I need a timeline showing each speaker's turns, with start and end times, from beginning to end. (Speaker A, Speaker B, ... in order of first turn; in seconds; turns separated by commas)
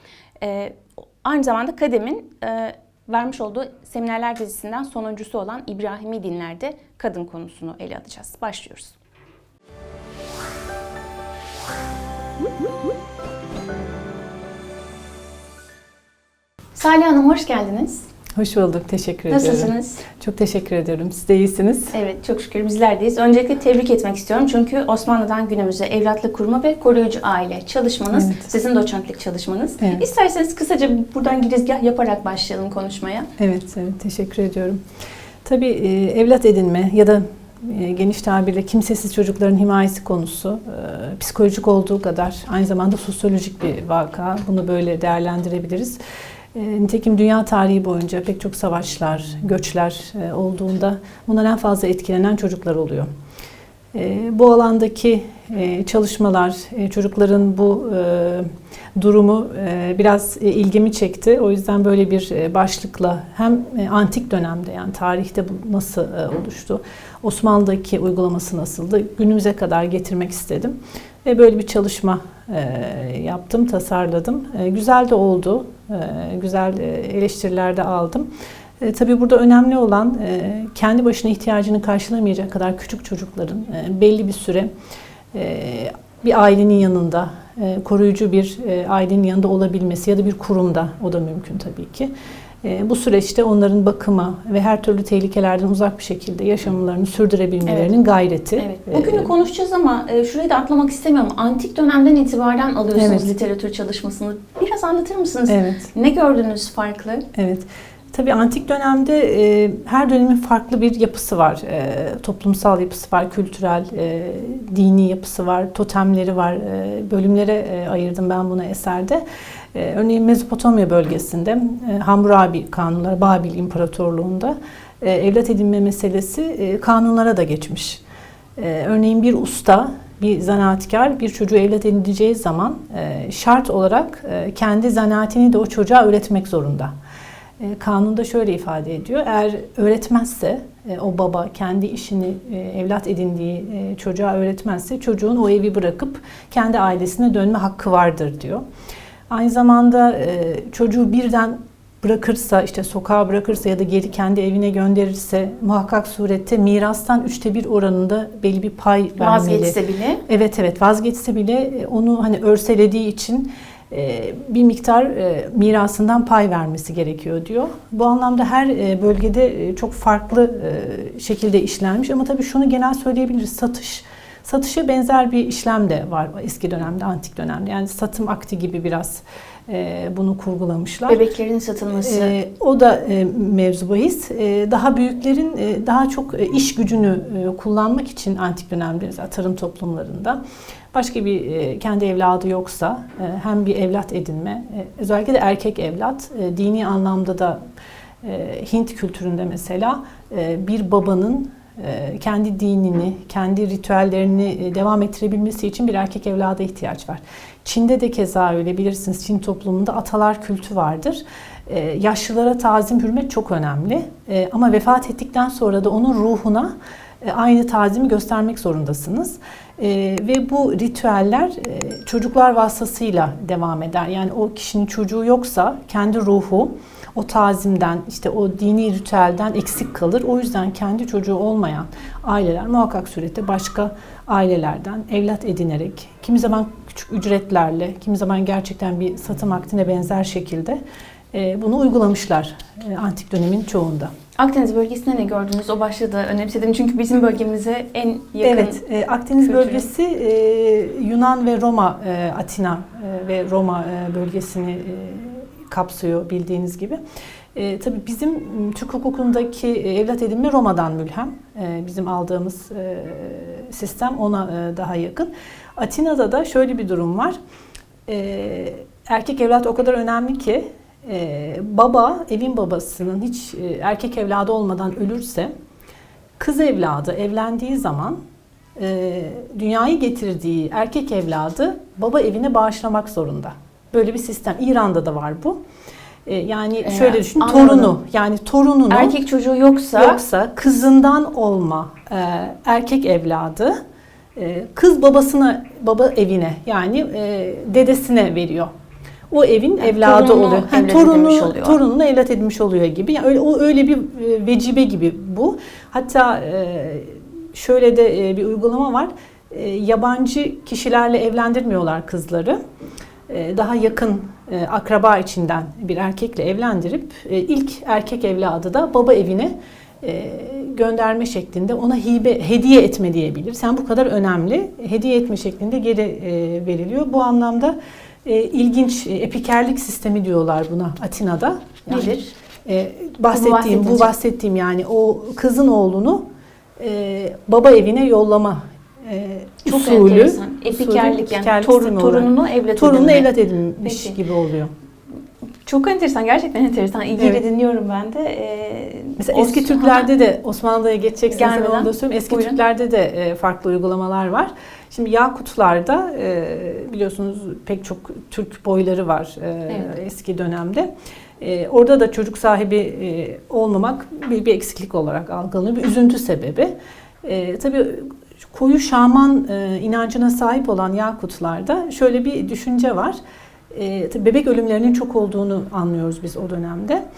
Speaker A: 0.4-9.0, Speaker A: 16.7-18.1, Speaker B: 18.4-21.9, Speaker A: 19.3-20.1, Speaker A: 21.9-33.3, Speaker B: 28.1-28.4, Speaker B: 29.8-30.0, Speaker B: 33.4-34.8, Speaker B: 35.4-46.0, Speaker B: 46.5-53.1, Speaker B: 53.9-78.3, Speaker B: 78.8-84.7, Speaker B: 85.3-92.1, Speaker B: 92.6-99.3, Speaker A: 97.6-97.9, Speaker A: 98.6-107.2, Speaker B: 103.0-103.3, Speaker B: 105.5-105.9, Speaker B: 107.3-119.2, Speaker B: 119.7-128.0, Speaker B: 128.6-136.9, Speaker B: 137.6-148.6, Speaker B: 149.3-159.7, Speaker A: 159.2-160.2, Speaker B: 160.3-181.2, Speaker A: 181.1-182.3, Speaker B: 182.0-190.4, Speaker B: 190.9-197.6, Speaker B: 198.2-240.8, Speaker B: 241.3-244.1, Speaker A: 244.3-248.8, Speaker B: 248.4-257.0, Speaker A: 249.4-249.9, Speaker B: 257.5-267.4, Speaker B: 268.1-275.5, Speaker B: 276.4-278.2, Speaker B: 278.8-285.6, Speaker B: 286.2-289.1, Speaker A: 286.8-287.9, Speaker A: 288.9-290.2, Speaker B: 290.0-293.7, Speaker B: 294.4-298.7, Speaker B: 299.3-312.6, Speaker A: 299.8-301.8, Speaker B: 313.3-336.2, Speaker A: 331.9-332.3, Speaker A: 333.3-334.1, Speaker B: 336.8-344.7, Speaker A: 339.6-343.3, Speaker A: 343.8-344.2, Speaker A: 345.6-350.1, Speaker B: 349.2-373.2, Speaker A: 351.3-352.6, Speaker A: 359.7-359.9, Speaker B: 373.7-377.0